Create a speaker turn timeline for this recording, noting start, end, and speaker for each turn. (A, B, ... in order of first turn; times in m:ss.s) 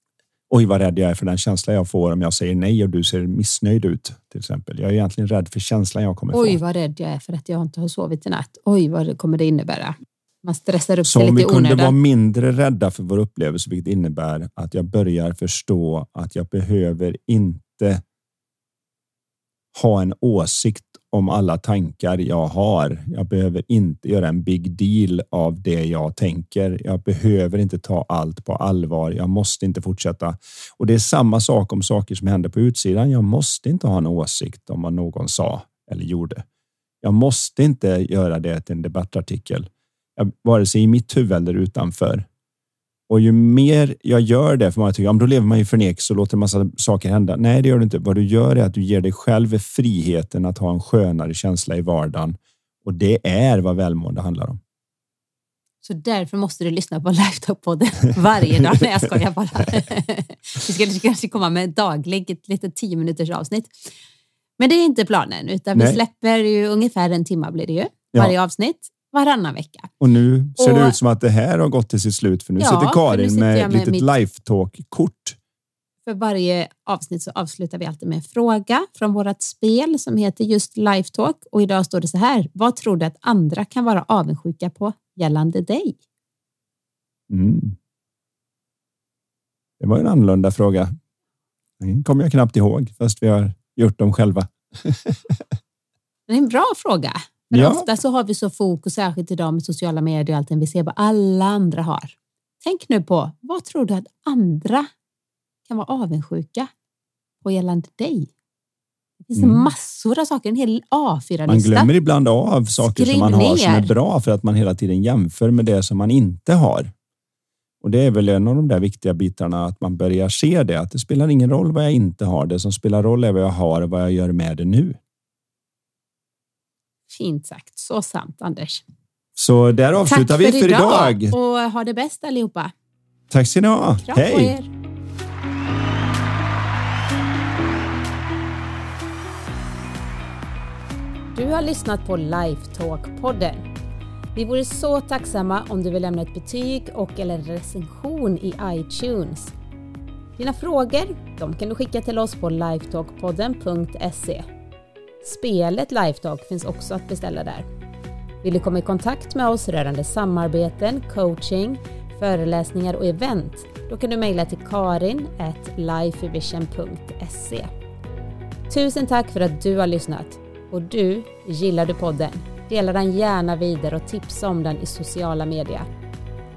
0:00.5-0:06.6 A
0:06.3-0:12.0 B
0:11.1-0:18.0 A
0:19.7-0:36.4 A
0:37.0-0:42.3 A
0:43.1-0:54.6 A
0:55.8-1:03.7 B
1:04.6-1:09.9 B
1:05.8-1:06.0 A
1:10.0-1:15.4 A
1:10.6-1:11.0 B
1:12.6-1:14.1 B
1:16.1-1:26.0 B
1:27.3-1:27.8 A
1:29.8-1:30.9 A
1:31.8-1:35.4 A
1:36.3-1:44.9 B
1:37.5-1:37.9 A
1:45.7-1:46.7 B
1:47.4-1:48.3 B
1:49.2-1:51.9 B
1:49.4-1:49.6 A
1:51.5-1:56.9 A
1:52.8-1:53.9 B
1:57.8-2:05.0 A
2:07.1-2:08.8 B
2:09.4-2:11.3 A
2:10.0-2:12.7 B
2:13.3-2:14.6 A
2:14.0-2:14.7 B
2:21.3-2:23.7 B
2:24.4-2:29.5 B
2:30.4-2:34.4 B
2:35.2-2:37.7 B
2:38.4-2:47.7 B
2:48.7-2:55.9 B